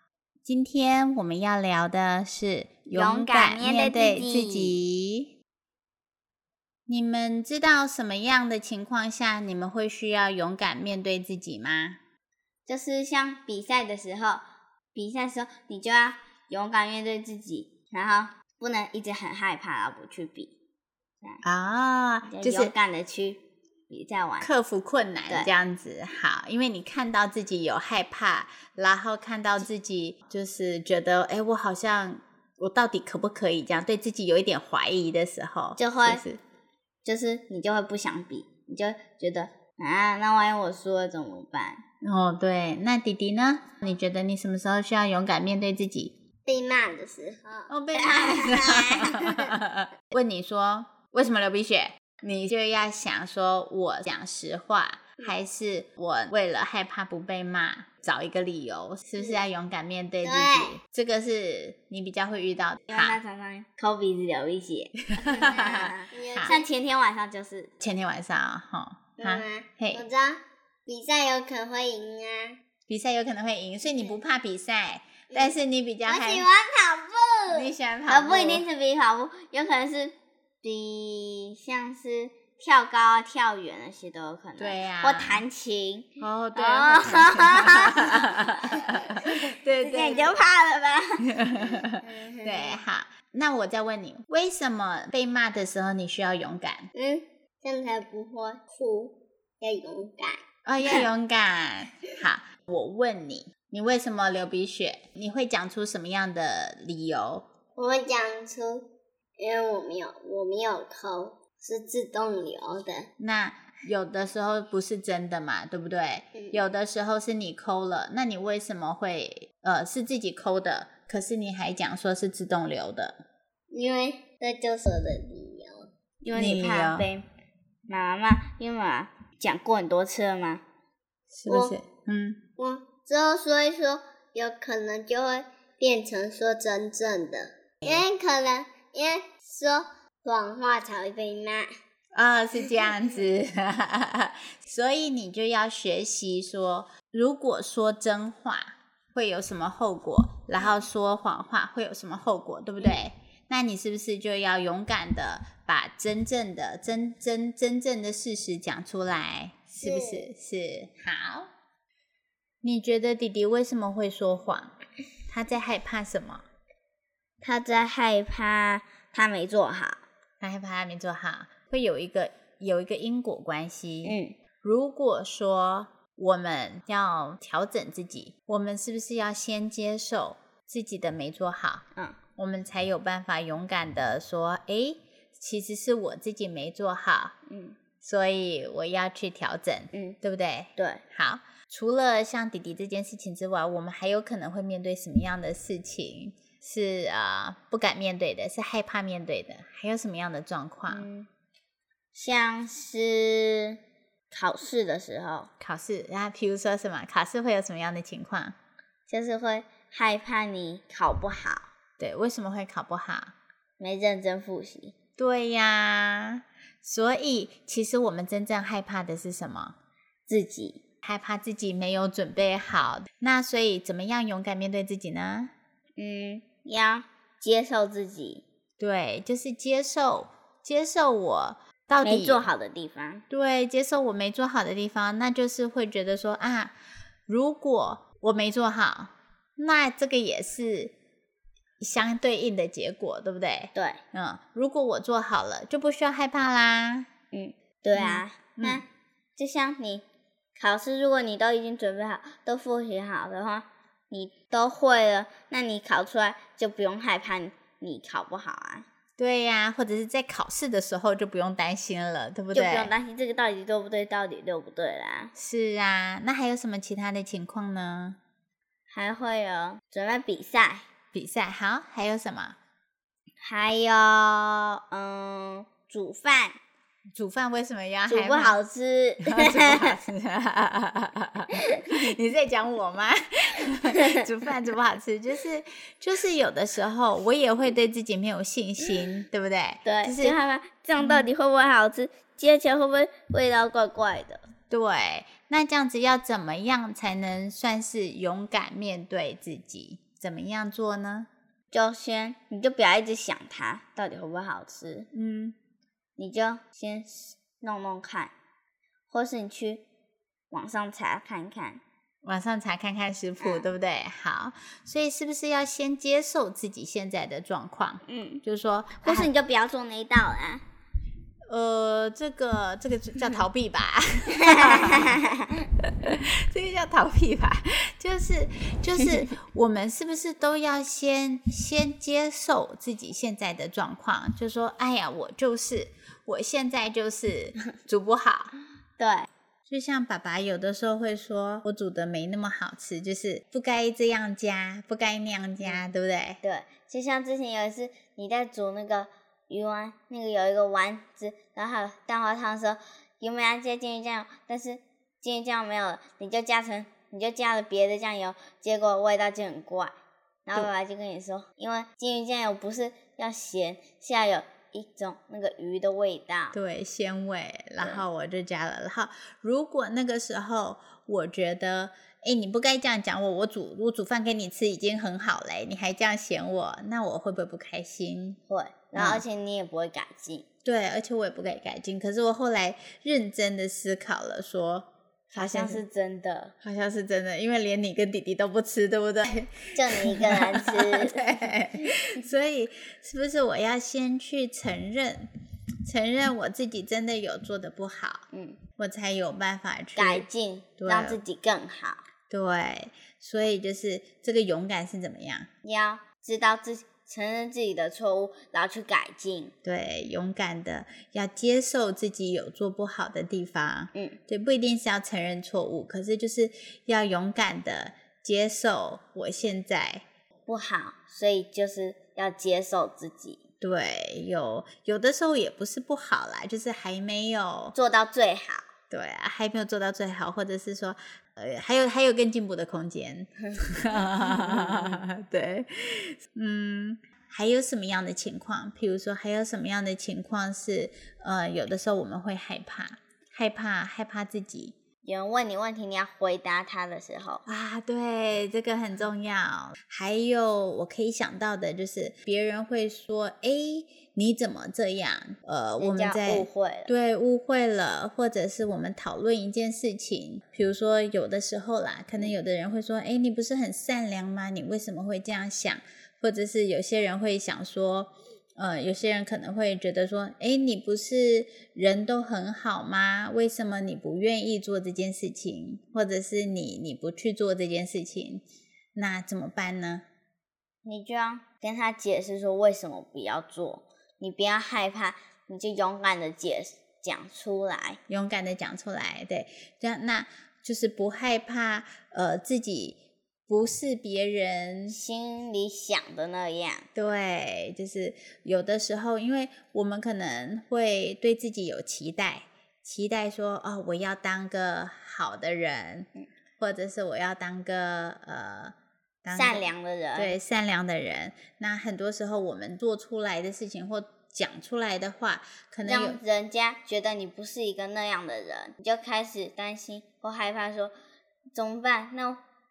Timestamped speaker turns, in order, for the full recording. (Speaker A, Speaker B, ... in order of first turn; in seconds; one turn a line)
Speaker A: 0.5-5.3
Speaker B: 2.9-4.8
Speaker A: 6.9-12.0
Speaker B: 12.7-14.4
Speaker B: 14.9-20.5
Speaker A: 21.4-22.7
Speaker B: 22.3-24.5
Speaker A: 24.4-36.4
Speaker B: 35.8-36.2
Speaker B: 37.0-41.8
Speaker A: 42.0-46.1
Speaker C: 46.5-47.7
Speaker B: 46.9-47.4
Speaker A: 47.7-63.2
Speaker B: 47.9-49.4
Speaker B: 59.2-59.4
Speaker B: 60.2-60.8
Speaker B: 62.9-67.7
Speaker A: 65.1-66.6
Speaker C: 66.1-66.6
Speaker A: 67.8-70.0
Speaker B: 69.2-70.2
Speaker C: 70.1-71.5
Speaker B: 71.0-72.5
Speaker A: 72.9-76.5
Speaker B: 76.1-92.8
Speaker A: 77.5-78.6
Speaker A: 84.6-85.4
Speaker A: 86.2-90.3
Speaker A: 91.3-96.9
Speaker B: 97.0-97.2
Speaker C: 97.6-100.0
Speaker B: 97.8-98.7
Speaker B: 99.7-101.0
Speaker A: 100.7-107.5
Speaker C: 107.8-108.9
Speaker C: 109.4-113.1
Speaker A: 113.2-123.2
Speaker B: 123.7-125.6
Speaker C: 124.5-125.9
Speaker B: 126.2-127.3
Speaker A: 126.3-127.1
Speaker B: 127.9-130.6
Speaker A: 131.3-132.4
Speaker C: 131.5-131.8
Speaker C: 132.6-132.9
Speaker B: 132.8-135.4
Speaker C: 134.3-135.2
Speaker C: 135.8-141.7
Speaker B: 137.9-139.6
Speaker A: 142.1-161.5
Speaker B: 159.8-160.3
Speaker A: 162.6-164.7
Speaker A: 165.3-166.4
Speaker B: 167.4-170.0
Speaker A: 170.4-181.8
Speaker B: 174.0-174.3
Speaker A: 182.4-187.4
Speaker B: 187.5-187.8
Speaker A: 188.0-201.1
Speaker B: 189.9-190.2
Speaker B: 190.8-191.0
Speaker B: 200.9-201.3
Speaker B: 202.1-203.8
Speaker B: 204.3-205.5
Speaker A: 205.6-208.6
Speaker B: 209.1-211.7
Speaker A: 212.0-213.3
Speaker B: 213.8-214.9
Speaker A: 215.2-219.8
Speaker B: 220.3-220.8
Speaker A: 221.0-225.5
Speaker B: 226.0-228.4
Speaker A: 228.8-232.5
Speaker B: 232.0-233.2
Speaker A: 233.3-236.7
Speaker A: 237.3-240.9
Speaker A: 241.8-247.1
Speaker B: 243.8-244.0
Speaker B: 247.3-248.8
Speaker A: 247.9-248.8
Speaker B: 249.4-250.1
Speaker B: 250.6-258.9
Speaker A: 259.2-262.9
Speaker B: 262.5-265.3
Speaker A: 265.4-268.2
Speaker B: 268.9-270.9
Speaker A: 271.1-272.6
Speaker B: 273.4-276.6
Speaker A: 277.1-278.6
Speaker B: 278.1-280.0
Speaker A: 279.2-290.4
Speaker B: 289.9-294.4
Speaker A: 291.0-291.3
Speaker A: 294.7-301.3
Speaker B: 301.7-305.1
Speaker A: 305.1-305.6
Speaker B: 306.2-308.3
Speaker B: 309.1-309.8
Speaker B: 310.5-311.8
Speaker A: 312.2-319.3
Speaker B: 313.4-313.7
Speaker B: 318.1-318.4
Speaker B: 319.0-320.6
Speaker A: 321.5-325.1
Speaker B: 324.4-325.4
Speaker A: 326.0-338.5
Speaker B: 339.0-339.3
Speaker A: 339.7-346.4
Speaker B: 346.4-359.9
Speaker B: 360.5-366.6
Speaker A: 366.5-378.4
Speaker B: 378.5-380.5
Speaker A: 378.9-379.2
Speaker A: 380.6-385.8
Speaker B: 385.3-386.6
Speaker A: 386.6-395.3
Speaker B: 389.8-391.5
Speaker A: 395.9-398.2
Speaker B: 398.3-398.6
Speaker A: 398.8-400.3
Speaker B: 400.0-402.0
Speaker A: 400.8-401.2
Speaker A: 402.3-405.5
Speaker B: 405.6-409.5
Speaker A: 409.6-420.0
Speaker B: 420.5-423.4
Speaker A: 423.6-427.8
Speaker B: 427.8-428.7
Speaker A: 428.9-444.8
Speaker B: 434.0-435.0
Speaker B: 445.0-447.4
Speaker A: 447.5-478.4
Speaker B: 455.8-456.9
Speaker A: 479.0-480.0
Speaker B: 480.9-488.0
Speaker A: 488.1-495.0
Speaker B: 494.9-496.9
Speaker A: 496.9-506.1
Speaker A: 506.6-516.2
Speaker B: 509.3-510.4
Speaker B: 515.8-520.9
Speaker B: 521.5-522.4